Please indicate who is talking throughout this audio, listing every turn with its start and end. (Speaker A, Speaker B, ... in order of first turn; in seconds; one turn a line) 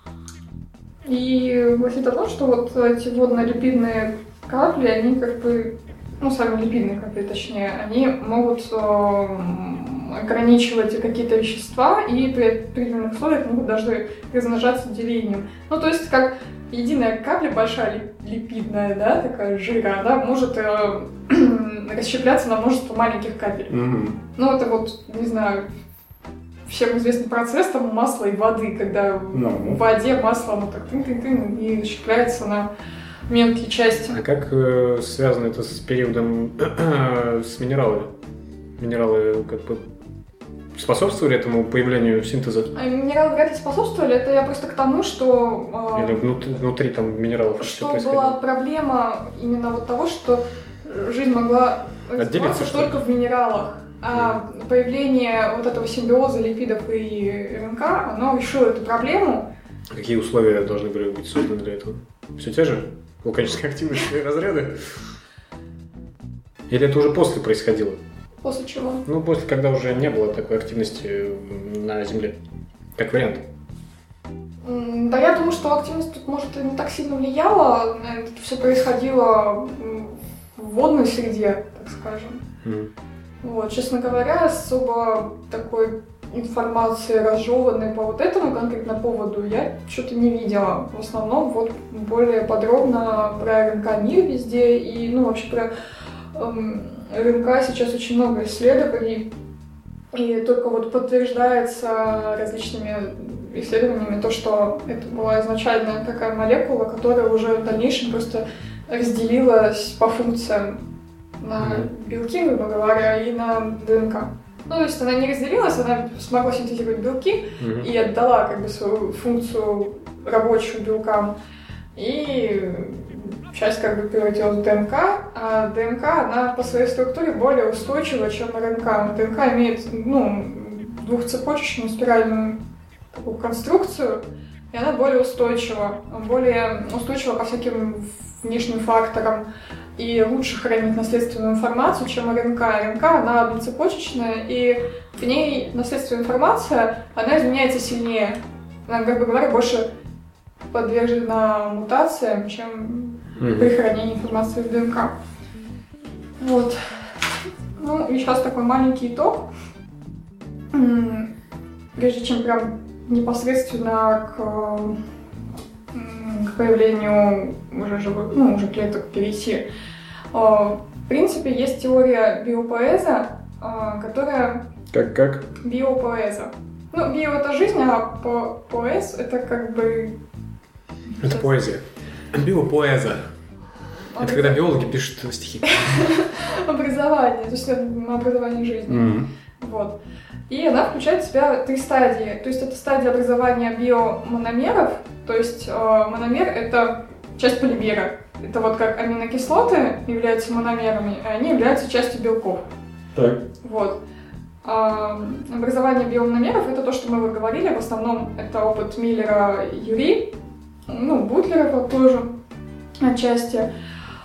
Speaker A: 1.1-23.7
Speaker B: 23.7-24.2
Speaker A: 24.4-25.7
Speaker A: 26.7-32.7
Speaker B: 29.3-29.8
Speaker A: 33.3-34.2
Speaker C: 34.1-38.1
Speaker C: 38.8-39.8
Speaker C: 40.8-42.7
Speaker A: 42.7-46.3
Speaker C: 45.9-48.4
Speaker A: 47.6-59.5
Speaker C: 52.2-53.0
Speaker C: 54.1-54.4
Speaker C: 59.9-64.8
Speaker C: 66.7-68.0
Speaker A: 68.4-69.0
Speaker C: 69.1-72.4
Speaker C: 73.0-73.5
Speaker A: 74.6-82.4
Speaker C: 82.6-82.9
Speaker A: 83.4-95.7
Speaker A: 96.3-99.3
Speaker A: 100.1-110.8
Speaker A: 111.4-121.4
Speaker C: 111.6-111.9
Speaker C: 117.6-117.9
Speaker A: 122.0-132.6
Speaker A: 133.1-149.9
Speaker A: 150.7-155.1
Speaker C: 153.4-153.7
Speaker A: 156.4-157.1
Speaker A: 157.8-159.5
Speaker A: 160.7-161.3
Speaker A: 162.0-165.0
Speaker A: 165.9-169.7
Speaker A: 170.3-174.7
Speaker B: 174.9-175.5
Speaker A: 175.6-180.2
Speaker A: 181.1-181.6
Speaker C: 181.2-183.3
Speaker A: 184.1-184.7
Speaker C: 184.2-186.0
Speaker A: 185.7-190.0
Speaker B: 188.9-189.3
Speaker A: 190.5-202.6
Speaker B: 203.2-203.4
Speaker A: 203.6-204.0
Speaker A: 204.6-210.3
Speaker A: 210.9-212.3
Speaker A: 213.0-213.7